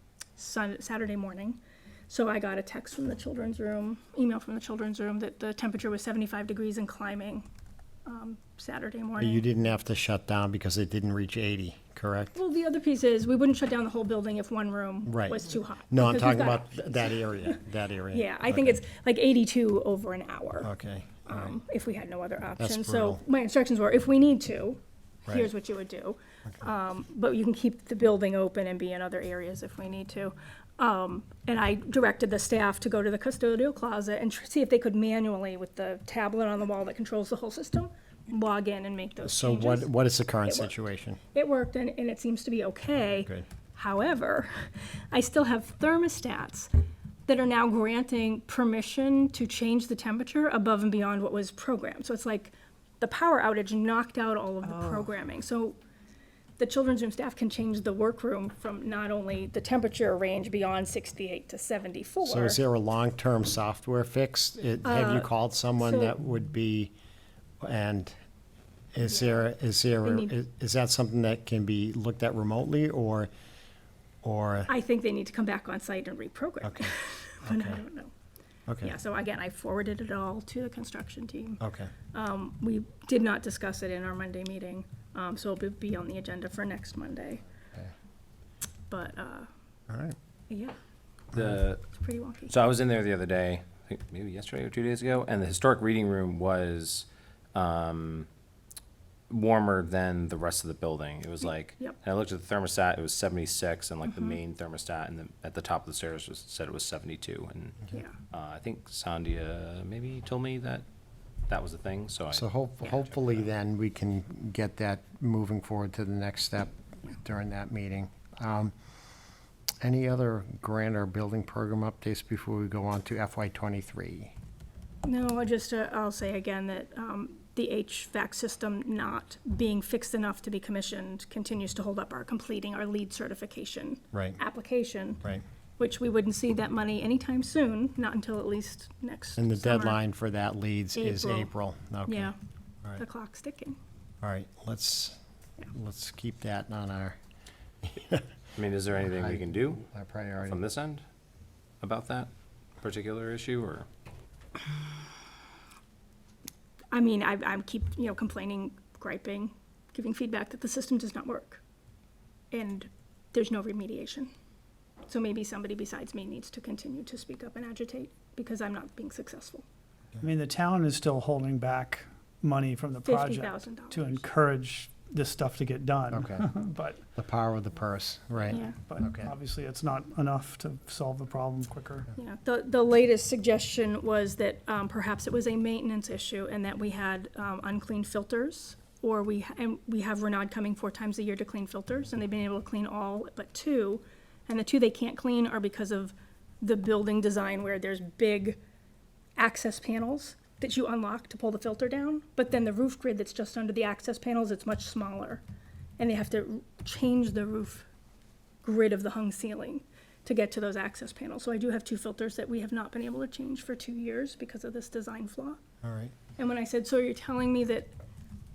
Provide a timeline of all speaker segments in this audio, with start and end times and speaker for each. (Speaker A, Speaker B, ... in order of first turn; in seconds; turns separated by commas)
Speaker A: 0.4-7.5, Speaker A: 8.1-9.4, Speaker B: 9.2-12.4, Speaker A: 12.3-17.6, Speaker B: 15.1-18.8, Speaker A: 18.1-20.7, Speaker B: 20.6-21.6, Speaker A: 21.3-39.9, Speaker B: 22.6-23.2, Speaker B: 39.2-41.2, Speaker A: 40.5-40.7, Speaker A: 41.3-46.7, Speaker B: 43.2-43.4, Speaker A: 47.3-55.8, Speaker A: 56.6-62.6, Speaker B: 62.2-66.9, Speaker A: 64.8-66.1, Speaker B: 67.6-68.1, Speaker B: 68.9-73.3, Speaker A: 70.0-70.3, Speaker B: 74.2-74.7, Speaker A: 74.7-78.1, Speaker B: 76.6-77.8, Speaker B: 78.7-78.9, Speaker A: 78.8-81.6, Speaker B: 81.6-81.9, Speaker A: 82.1-87.4, Speaker A: 88.9-89.5, Speaker B: 89.9-90.2, Speaker A: 90.5-90.7, Speaker C: 91.3-91.8, Speaker B: 91.3-91.6, Speaker A: 91.9-92.5, Speaker C: 92.5-98.3, Speaker C: 99.3-107.8, Speaker A: 104.0-104.4, Speaker C: 108.3-110.8, Speaker C: 111.5-112.5, Speaker B: 112.3-118.7, Speaker B: 119.8-124.3, Speaker A: 125.0-135.2, Speaker B: 134.1-134.4, Speaker A: 135.8-140.0, Speaker B: 139.4-142.3, Speaker A: 140.9-141.5, Speaker A: 142.1-142.3, Speaker A: 143.0-143.8, Speaker B: 144.2-145.2, Speaker B: 145.7-147.2, Speaker B: 147.8-148.3, Speaker C: 148.6-149.8, Speaker B: 149.0-150.6, Speaker C: 150.4-151.0, Speaker C: 151.8-152.3, Speaker C: 152.8-153.9, Speaker A: 156.9-161.6, Speaker A: 162.5-164.3, Speaker A: 165.1-169.6, Speaker D: 170.2-177.0, Speaker A: 173.0-174.2, Speaker B: 176.1-176.4, Speaker B: 177.2-179.3, Speaker A: 178.5-178.8, Speaker D: 178.8-182.1, Speaker A: 182.1-198.6, Speaker A: 199.4-205.4, Speaker A: 206.0-207.9, Speaker A: 208.6-215.6, Speaker B: 215.8-216.1, Speaker A: 216.4-217.9